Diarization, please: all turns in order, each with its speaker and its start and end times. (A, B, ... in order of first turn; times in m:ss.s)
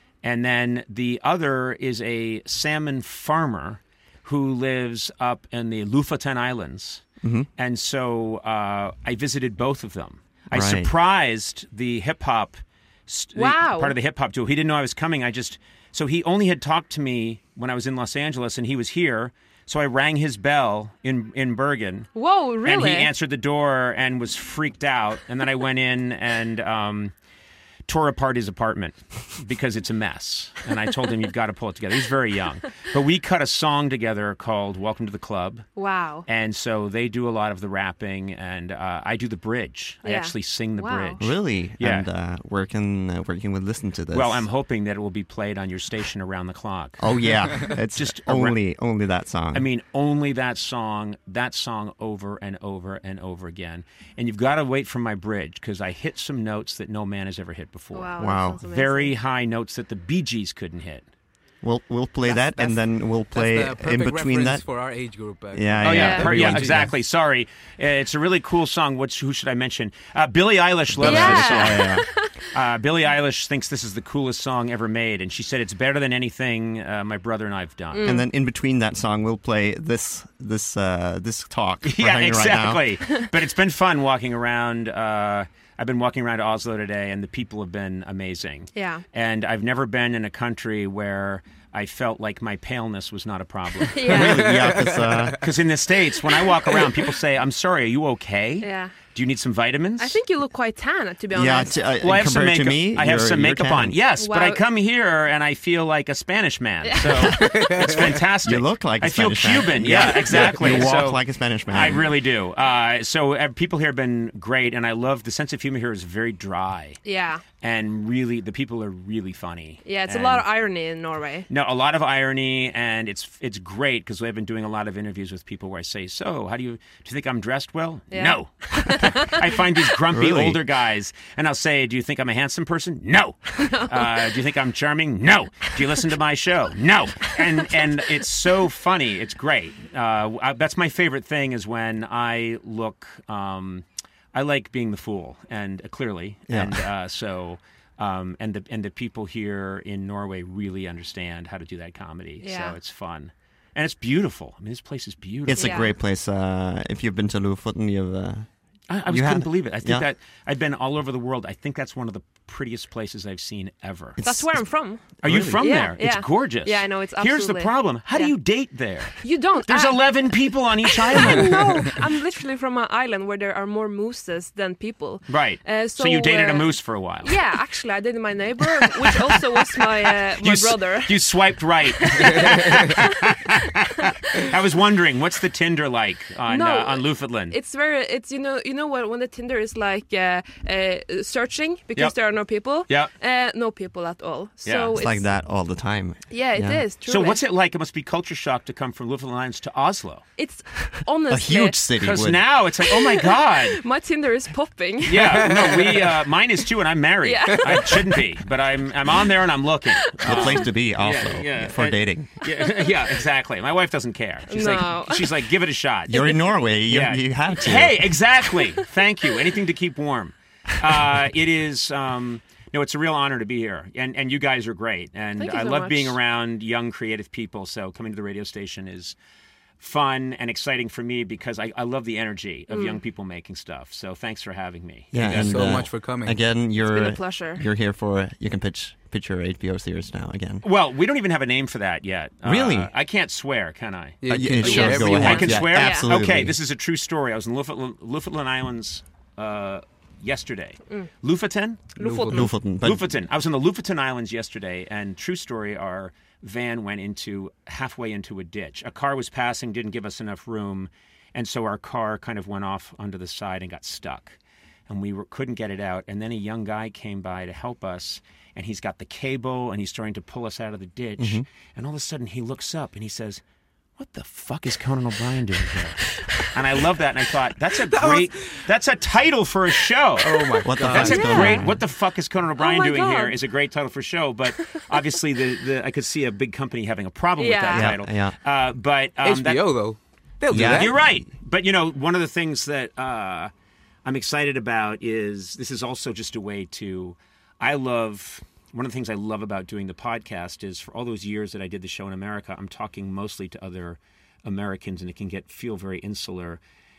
0:00.2-0:07.0 A
0:07.2-0:07.5 B
0:07.6-0:22.1 A
0:10.5-0:10.9 B
0:13.4-0:14.0 C
0:22.2-0:23.1 C
0:22.6-0:27.1 A
0:27.9-0:35.7 A
0:35.8-0:36.2 C
0:36.3-0:42.1 A
0:40.0-0:41.2 C
0:41.2-0:44.5 B
0:44.1-0:47.0 A
0:47.0-0:49.6 B
0:47.9-0:48.6 A
0:49.5-0:58.2 A
0:57.9-0:59.1 C
0:58.2-0:58.6 B
0:58.7-1:01.1 A
1:01.6-1:04.6 B
1:02.3-1:02.8 D
1:03.3-1:06.9 D
1:05.5-1:07.0 B
1:05.8-1:12.0 A
1:05.9-1:06.3 C
1:10.9-1:12.0 B
1:11.0-1:12.3 C
1:12.5-1:18.1 A
1:17.9-1:18.3 C
1:18.0-1:22.9 B
1:21.8-1:34.1 A
1:28.8-1:29.0 C
1:33.9-1:34.5 C
1:34.1-1:35.4 B
1:34.2-1:35.4 D
1:35.4-1:40.2 A
1:38.6-1:39.0 C
1:40.0-1:41.8 C
1:41.3-1:44.0 B
1:42.0-1:57.0 A
1:44.2-1:44.6 C
1:46.8-1:47.5 C
1:47.4-1:48.2 D
1:48.4-1:52.0 B
1:57.0-1:57.4 C
1:57.6-2:00.4 A
1:59.8-2:01.5 C
2:01.5-2:35.8 A
2:08.1-2:09.4 C
2:10.1-2:10.6 B
2:13.6-2:14.3 C
2:26.5-2:26.8 B
2:32.4-2:32.8 C
2:35.4-2:38.5 B
2:35.6-2:35.9 C
2:38.9-2:44.2 A
2:39.1-2:40.1 B
2:44.2-2:44.5 B
2:44.2-2:48.3 C
2:45.2-2:51.9 A
2:45.2-2:45.7 B
2:49.2-2:50.2 C
2:50.8-3:01.2 C
2:55.3-2:57.4 A
3:00.4-3:07.6 A
3:02.0-3:03.2 C
3:06.5-3:15.2 C
3:14.6-3:15.0 A
3:14.9-3:16.8 B
3:16.3-3:17.4 C
3:17.1-3:20.2 A
3:20.4-3:21.9 C
3:21.3-3:22.4 B
3:22.0-3:23.8 A
3:22.9-3:25.5 C
3:25.1-3:49.2 A
3:25.4-3:26.0 D
3:27.2-3:28.0 C
3:30.1-3:30.7 C
3:30.2-3:32.4 B
3:34.5-3:35.4 C
3:36.1-3:38.2 B
3:45.4-3:46.2 C
3:49.8-3:55.9 A
3:52.7-3:53.0 C
3:55.1-4:00.6 B
3:55.3-3:56.4 D
3:56.9-3:57.6 C
4:00.6-4:11.9 A
4:02.4-4:02.9 B
4:04.2-4:05.7 D
4:04.3-4:06.6 B
4:04.6-4:06.1 C
4:12.0-4:12.5 C
4:12.0-4:12.4 D
4:12.3-4:13.1 B
4:12.8-4:24.4 A
4:24.9-4:33.4 A
4:31.2-4:31.4 B
4:34.0-4:49.7 A
4:37.9-4:38.6 D
4:40.2-4:41.2 D
4:40.6-4:41.8 B
4:40.9-4:41.7 C
4:42.6-4:43.4 C
4:47.4-4:47.9 C
4:47.7-4:48.4 B
4:49.2-4:51.0 D
4:50.5-4:51.2 B
4:50.6-4:53.5 A
4:54.0-5:06.6 A